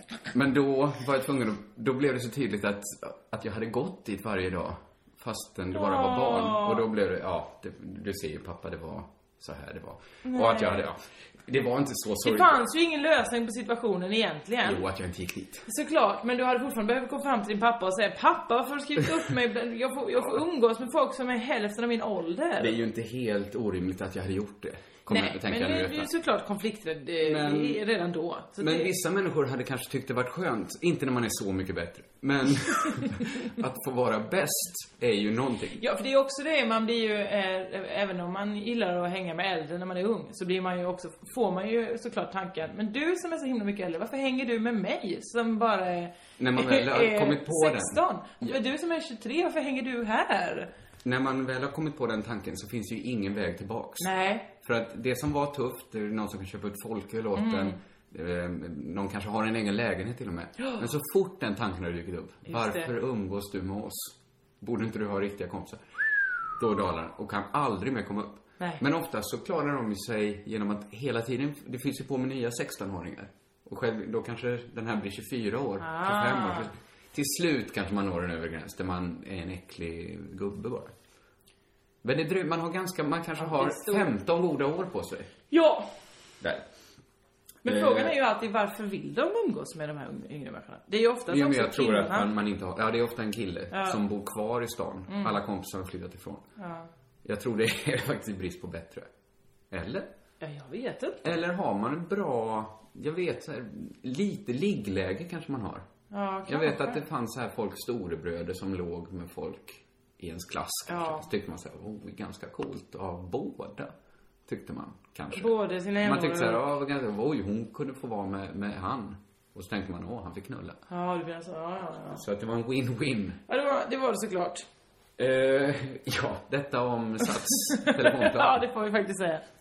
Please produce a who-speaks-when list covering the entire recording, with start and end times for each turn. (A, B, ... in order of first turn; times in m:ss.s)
0:00.3-0:12.6 A
0:05.7-0:06.9 B
0:10.2-0:10.8 B
0:12.2-0:14.8 B
0:14.6-0:15.6 A
0:15.6-0:22.8 B
0:22.6-0:26.1 A
0:25.1-0:28.9 B
0:27.2-0:27.8 A
0:28.6-0:35.8 A
0:35.8-0:50.7 B
0:46.4-0:48.6 A
0:51.0-1:05.8 A
0:54.0-0:54.5 B
0:57.4-0:57.8 B
1:02.5-1:02.9 B
1:06.6-1:21.0 A
1:15.8-1:16.7 B
1:22.0-1:25.3 A
1:23.4-1:24.1 B
1:25.5-1:25.9 B
1:26.4-1:26.6 A
1:27.6-1:32.3 B
1:27.6-1:28.1 A
1:31.3-1:36.5 A
1:33.7-1:34.0 B
1:35.1-1:35.4 B
1:36.6-1:36.9 B
1:37.2-1:39.1 A
1:39.7-1:40.1 A
1:40.4-1:41.3 B
1:41.2-1:45.9 A
1:46.1-1:47.0 B
1:46.5-1:53.9 A
1:50.9-1:51.2 B
1:54.5-2:00.8 A
1:55.3-1:56.6 B
2:00.9-2:02.2 B
2:02.1-2:03.4 A
2:03.5-2:04.6 B
2:05.2-2:08.6 A
2:07.8-2:09.5 B